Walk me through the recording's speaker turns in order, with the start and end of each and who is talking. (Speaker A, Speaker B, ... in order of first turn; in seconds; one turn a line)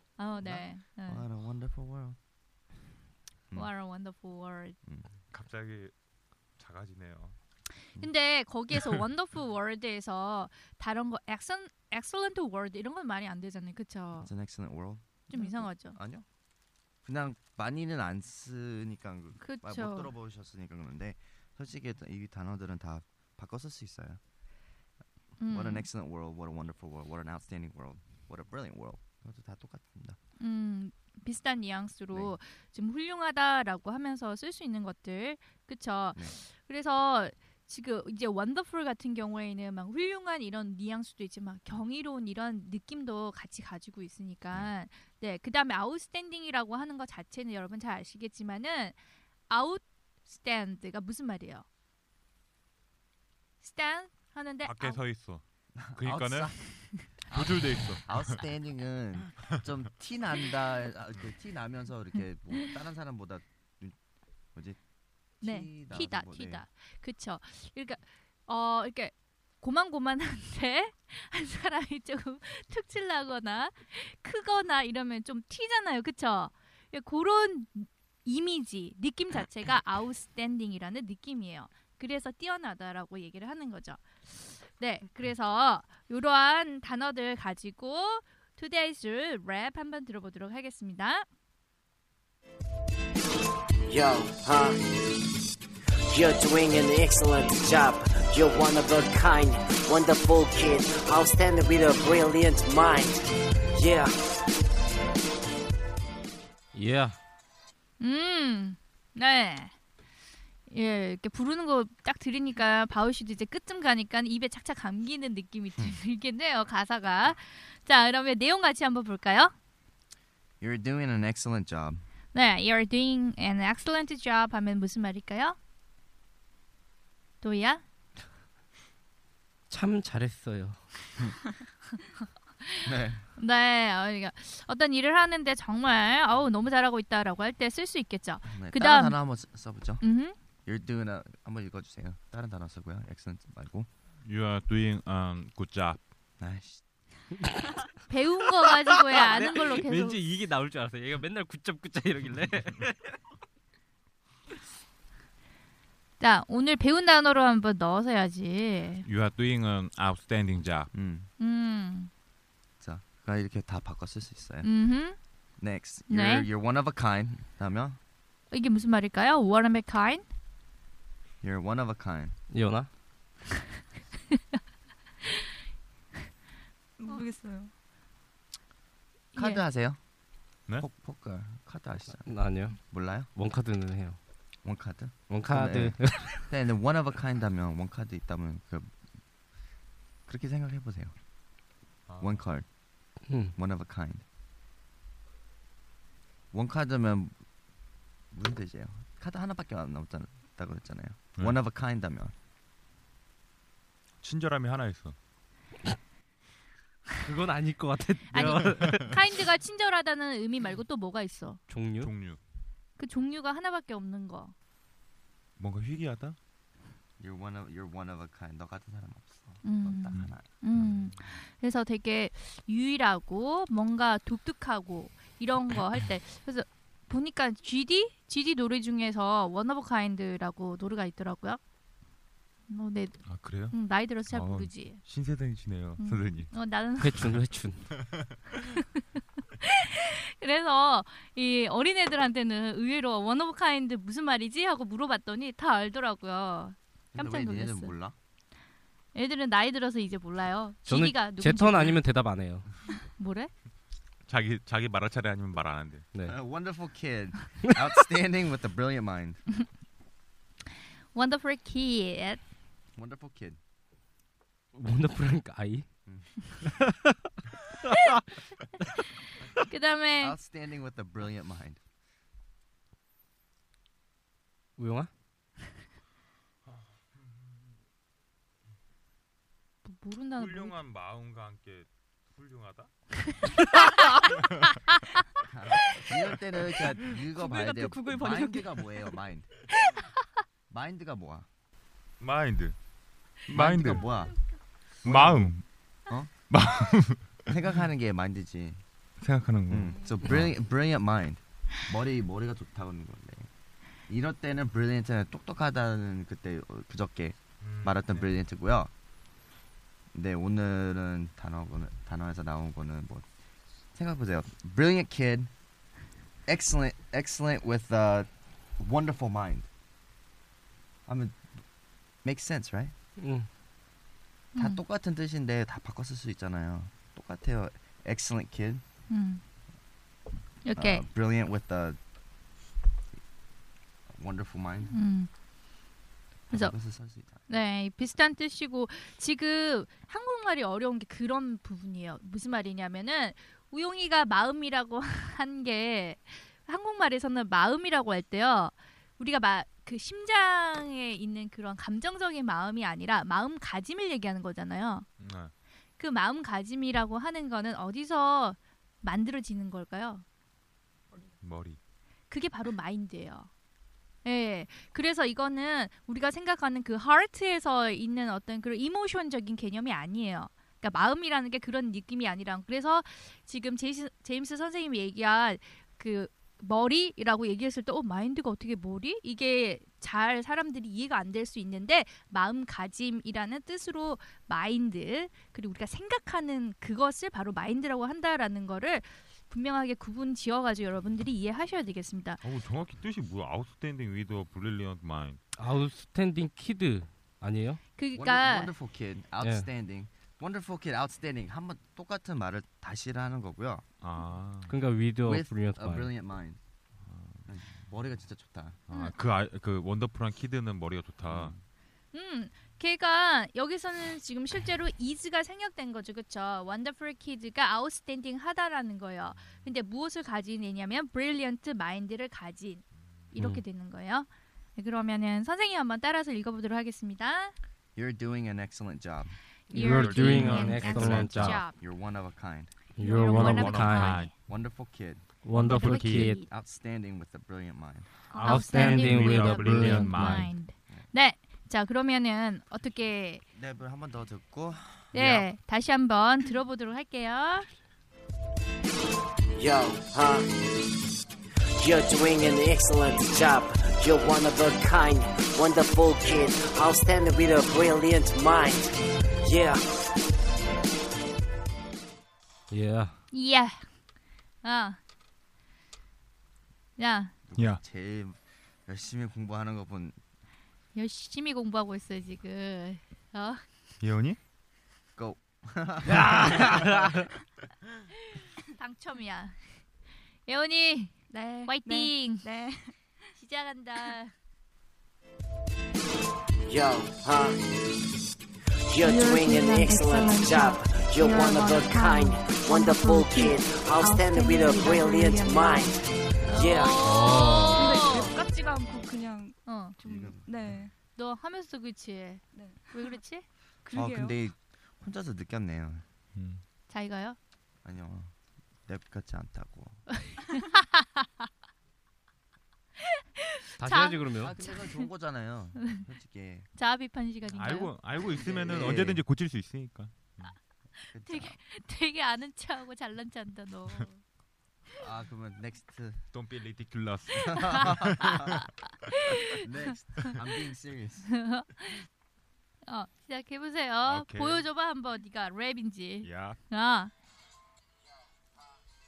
Speaker A: 0.2-1.3
Speaker B: 0.3-2.2
Speaker A: 3.5-4.8
Speaker C: 5.3-5.9
Speaker C: 6.6-7.4
Speaker A: 7.8-14.3
Speaker B: 14.2-16.3
Speaker A: 15.3-16.0
Speaker B: 17.0-24.2
Speaker A: 19.4-20.1
Speaker A: 25.4-25.9
Speaker B: 25.5-30.2
Speaker A: 30.4-51.7
Speaker A: 53.6-55.0
Speaker C: 54.6-55.4
Speaker B: 55.8-64.0
Speaker C: 55.9-58.4
Speaker B: 64.5-64.8
Speaker B: 65.4-66.7
Speaker A: 65.4-91.3
Speaker D: 93.9-94.8
Speaker D: 96.1-104.1
Speaker E: 106.7-107.2
Speaker A: 108.0-109.7
Speaker A: 110.7-119.5
Speaker B: 120.6-122.0
Speaker A: 122.3-125.6
Speaker A: 127.4-127.8
Speaker E: 129.7-130.8
Speaker B: 132.8-133.3
Speaker A: 133.4-139.2
Speaker B: 138.4-140.0
Speaker A: 140.0-140.4
Speaker B: 140.7-143.9
Speaker C: 144.2-146.0
Speaker B: 146.4-146.8
Speaker A: 148.1-150.2
Speaker E: 149.2-153.0
Speaker A: 156.2-159.1
Speaker C: 159.1-160.9
Speaker B: 160.9-161.3
Speaker A: 161.4-162.1
Speaker B: 162.8-164.8
Speaker A: 164.6-165.2
Speaker B: 165.6-168.0
Speaker A: 166.1-166.5
Speaker A: 168.5-170.2
Speaker B: 171.4-172.3
Speaker E: 172.5-172.9
Speaker F: 177.0-177.7
Speaker B: 179.3-180.0
Speaker B: 180.8-183.3
Speaker E: 182.1-182.8
Speaker E: 183.3-184.2
Speaker B: 184.6-188.9
Speaker E: 185.3-186.5
Speaker B: 190.3-191.1
Speaker C: 192.1-192.5
Speaker B: 192.2-192.8
Speaker E: 193.3-193.6
Speaker B: 193.3-194.2
Speaker B: 196.5-197.4
Speaker B: 198.3-202.3
Speaker C: 204.2-205.2
Speaker E: 207.2-209.2
Speaker A: 208.3-211.6
Speaker E: 211.7-212.1
Speaker C: 212.0-212.4
Speaker A: 213.0-214.6
Speaker C: 215.6-216.4
Speaker B: 217.2-220.5
Speaker A: 219.6-231.6
Speaker C: 220.1-221.3
Speaker A: 232.7-235.0
Speaker C: 233.3-233.8
Speaker C: 234.3-236.5
Speaker A: 236.0-237.3
Speaker E: 237.0-237.8
Speaker A: 239.6-247.9
Speaker B: 247.1-248.2
Speaker A: 249.1-252.0
Speaker E: 250.9-252.7
Speaker A: 253.1-253.5
Speaker C: 254.3-256.1
Speaker B: 256.2-259.4
Speaker A: 261.1-262.4
Speaker B: 263.0-263.6
Speaker E: 264.8-265.9
Speaker B: 266.1-266.5
Speaker E: 266.6-267.1
Speaker A: 269.5-270.4
Speaker B: 270.2-271.8
Speaker E: 274.8-275.1
Speaker C: 276.7-277.7
Speaker A: 279.9-280.8
Speaker C: 280.4-282.9
Speaker B: 285.5-289.5
Speaker F: 287.3-289.0
Speaker B: 290.7-291.5
Speaker C: 292.2-292.8
Speaker C: 293.5-294.1
Speaker B: 293.5-294.4
Speaker B: 295.0-296.3
Speaker C: 295.1-295.6
Speaker C: 296.5-297.5
Speaker B: 297.5-298.8
Speaker C: 299.2-300.5
Speaker B: 299.7-303.5
Speaker B: 304.1-308.9
Speaker C: 307.6-308.4
Speaker B: 310.1-313.3
Speaker B: 313.9-315.5
Speaker B: 316.5-319.7
Speaker B: 321.1-321.6
Speaker B: 322.2-322.9
Speaker E: 323.2-323.5
Speaker A: 324.6-324.8
Speaker B: 324.6-328.8
Speaker A: 329.1-329.4
Speaker A: 330.6-331.1
Speaker B: 330.8-332.0
Speaker B: 334.1-334.9
Speaker A: 334.9-335.3
Speaker B: 336.5-337.5
Speaker A: 337.5-355.1
Speaker C: 355.2-355.5
Speaker A: 356.0-360.2
Speaker C: 361.4-361.8
Speaker A: 362.3-363.5
Speaker A: 364.2-392.4
Speaker C: 392.4-395.4
Speaker E: 395.6-397.8
Speaker A: 398.0-398.7
Speaker B: 398.1-403.9
Speaker E: 399.4-399.7
Speaker C: 404.0-404.8
Speaker E: 404.7-406.1
Speaker B: 405.2-406.6
Speaker C: 407.1-407.4
Speaker B: 407.5-408.8
Speaker C: 408.9-411.6
Speaker A: 408.9-409.1
Speaker B: 411.2-411.6
Speaker A: 412.1-427.6
Speaker E: 423.4-423.6
Speaker B: 428.0-429.4
Speaker A: 429.7-431.8
Speaker E: 429.7-431.6
Speaker C: 429.9-431.5
Speaker B: 431.6-432.8
Speaker E: 433.0-434.2
Speaker A: 433.0-434.3
Speaker C: 433.2-434.3
Speaker B: 433.8-435.3
Speaker E: 435.4-436.3
Speaker A: 435.5-436.5
Speaker C: 435.6-436.2
Speaker B: 435.9-438.1
Speaker F: 438.3-439.0
Speaker A: 438.4-443.4
Speaker C: 438.4-440.6
Speaker E: 438.6-440.4
Speaker B: 443.5-445.2
Speaker A: 445.1-447.7
Speaker C: 445.1-445.5
Speaker D: 449.6-450.5
Speaker D: 451.8-459.8
Speaker E: 462.7-463.1
Speaker A: 463.3-463.9
Speaker A: 464.6-465.0
Speaker A: 467.0-467.3
Speaker B: 467.5-470.2
Speaker A: 470.9-473.6
Speaker C: 474.0-474.4
Speaker B: 475.2-476.8
Speaker E: 476.2-476.7
Speaker C: 476.2-476.6
Speaker A: 478.7-479.6
Speaker A: 480.5-482.5
Speaker F: 481.3-483.0
Speaker A: 483.3-484.3
Speaker D: 486.7-487.6
Speaker D: 488.9-496.0
Speaker F: 489.0-496.1
Speaker A: 496.4-498.4
Speaker D: 496.5-497.3
Speaker E: 497.0-497.6
Speaker F: 497.7-500.9
Speaker A: 499.6-500.0
Speaker B: 500.0-500.8
Speaker A: 501.2-503.5
Speaker F: 502.5-503.2
Speaker F: 503.8-504.4
Speaker B: 503.9-506.1
Speaker C: 506.4-506.6
Speaker A: 506.9-507.4
Speaker B: 507.8-508.3
Speaker B: 508.9-510.1
Speaker A: 510.4-511.3
Speaker A: 513.4-515.1
Speaker E: 513.8-514.5
Speaker B: 514.4-516.7
Speaker A: 516.8-518.2
Speaker C: 517.5-520.5
Speaker B: 518.3-519.2
Speaker B: 521.1-521.6
Speaker A: 521.2-524.2
Speaker B: 525.0-526.2
Speaker C: 526.3-528.6
Speaker B: 527.3-528.5
Speaker A: 529.1-529.6
Speaker B: 529.5-531.3
Speaker A: 531.3-532.1
Speaker A: 532.8-537.1
Speaker C: 534.0-534.7
Speaker C: 536.2-536.6